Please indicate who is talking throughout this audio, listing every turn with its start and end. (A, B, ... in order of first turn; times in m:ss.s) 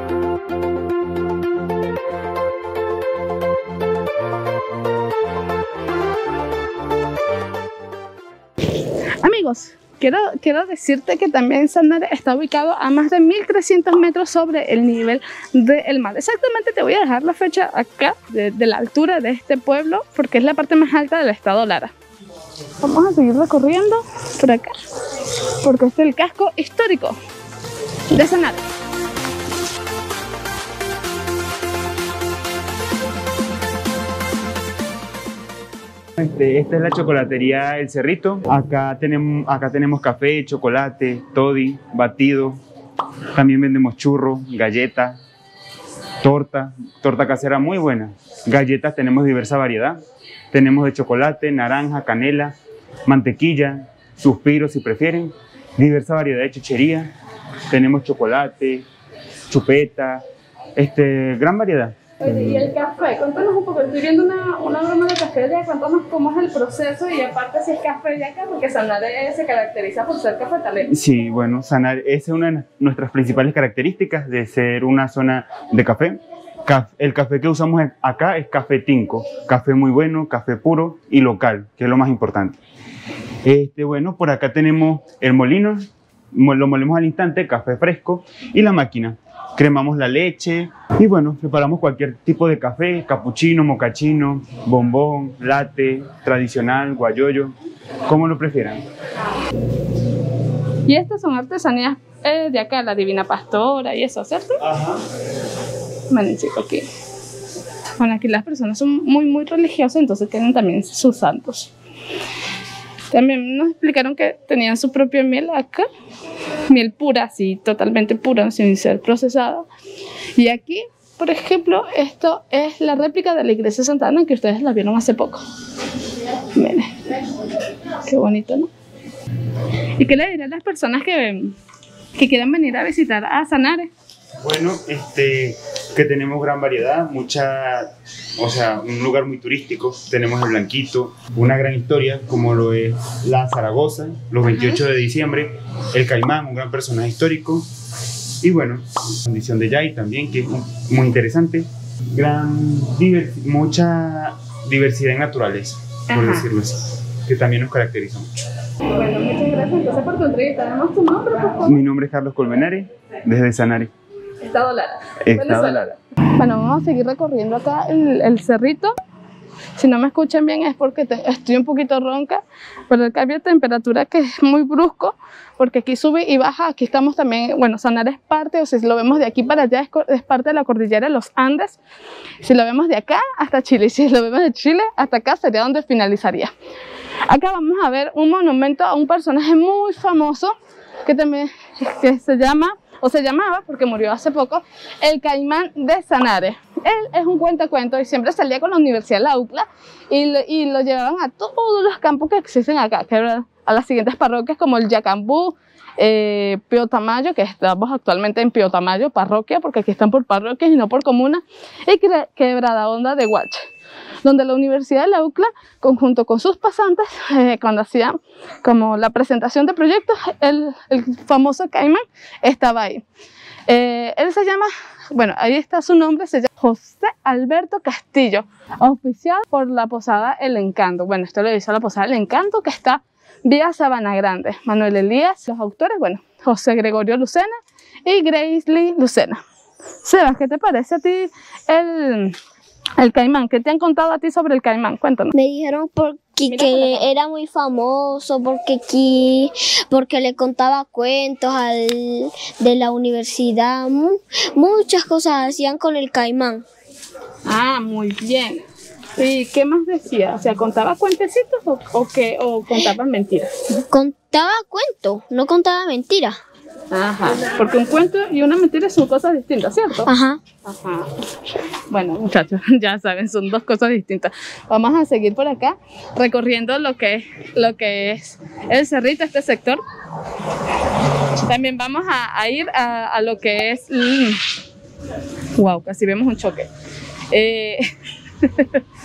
0:09.2-0:21.9 A
0:22.8-0:24.8 A
0:25.6-0:27.2 A
0:28.1-0:28.7 A
0:36.2-0:42.6 B
0:43.3-0:45.2 B
0:46.2-0:50.0 B
0:50.5-0:52.5 B
0:53.0-0:57.1 B
0:57.7-0:58.8 B
0:59.5-1:00.2 B
1:00.8-1:02.6 B
1:02.2-1:10.9 A
1:10.9-1:22.6 B
1:23.4-1:37.5 B
1:38.1-1:38.8 B
1:40.9-1:44.6 A
1:44.6-1:45.0 B
1:46.1-1:46.8 A
1:48.0-1:51.7 A
1:53.1-1:55.9 A
1:56.7-1:59.6 A
2:00.4-2:05.4 A
2:06.5-2:07.0 A
2:08.0-2:08.7 A
2:10.0-2:11.6 A
2:12.2-2:13.9 A
2:14.4-2:27.7 B
2:28.4-2:38.4 B
2:36.1-2:36.5 A
2:38.8-2:41.8 A
2:41.6-2:43.9 B
2:44.4-2:48.9 A
2:45.2-2:45.9 B
2:49.8-3:01.8 A
3:02.4-3:06.5 A
3:07.3-3:33.7 A
3:34.2-3:43.0 A
3:43.7-3:59.4 A
4:00.0-4:02.4 A
4:03.0-4:05.3 A
4:05.3-4:16.6 C
4:06.5-4:07.1 A
4:17.4-4:18.6 A
4:19.2-4:23.8 A
4:23.9-4:26.4 C
4:26.9-4:30.1 A
4:30.1-4:30.4 C
4:30.6-4:39.8 A
4:41.3-4:44.5 A
4:45.6-4:46.7 A
4:47.3-4:47.9 A
4:48.4-4:48.8 A